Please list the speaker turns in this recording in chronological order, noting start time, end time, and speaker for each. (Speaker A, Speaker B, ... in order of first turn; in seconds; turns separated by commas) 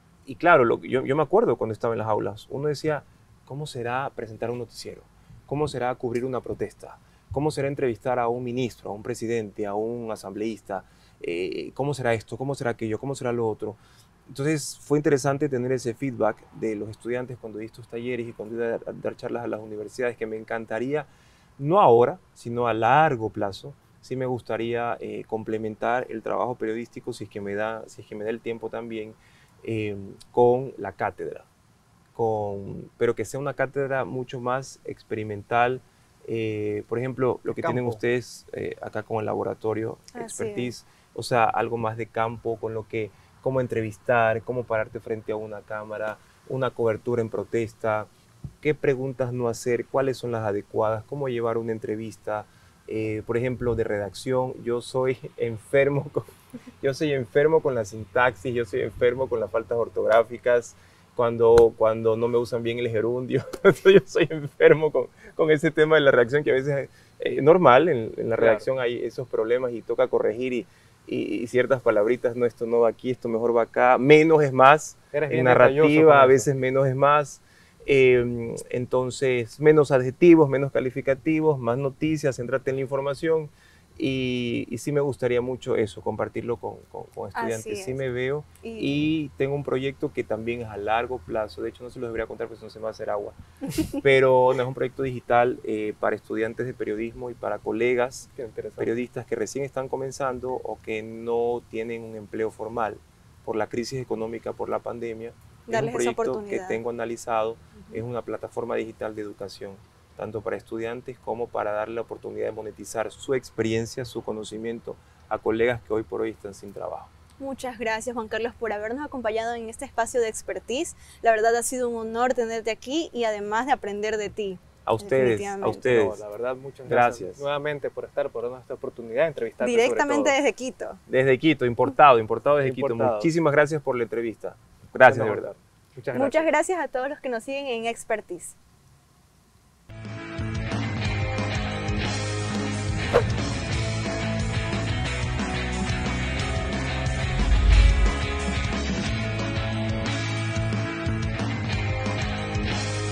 Speaker A: 0.3-31.5, Speaker A: 32.1-48.1, Speaker B: 37.5-38.0, Speaker C: 40.1-40.7, Speaker A: 48.6-93.4, Speaker B: 68.4-68.7, Speaker B: 75.1-76.5, Speaker C: 87.3-88.0, Speaker C: 88.6-89.0, Speaker A: 93.9-117.1, Speaker B: 98.4-98.9, Speaker C: 105.7-106.8, Speaker C: 117.4-125.9, Speaker A: 124.8-126.2, Speaker B: 125.8-130.4, Speaker A: 126.9-127.4, Speaker C: 129.6-131.0, Speaker A: 131.1-135.6, Speaker B: 132.6-133.3, Speaker B: 135.1-136.5, Speaker C: 136.1-138.6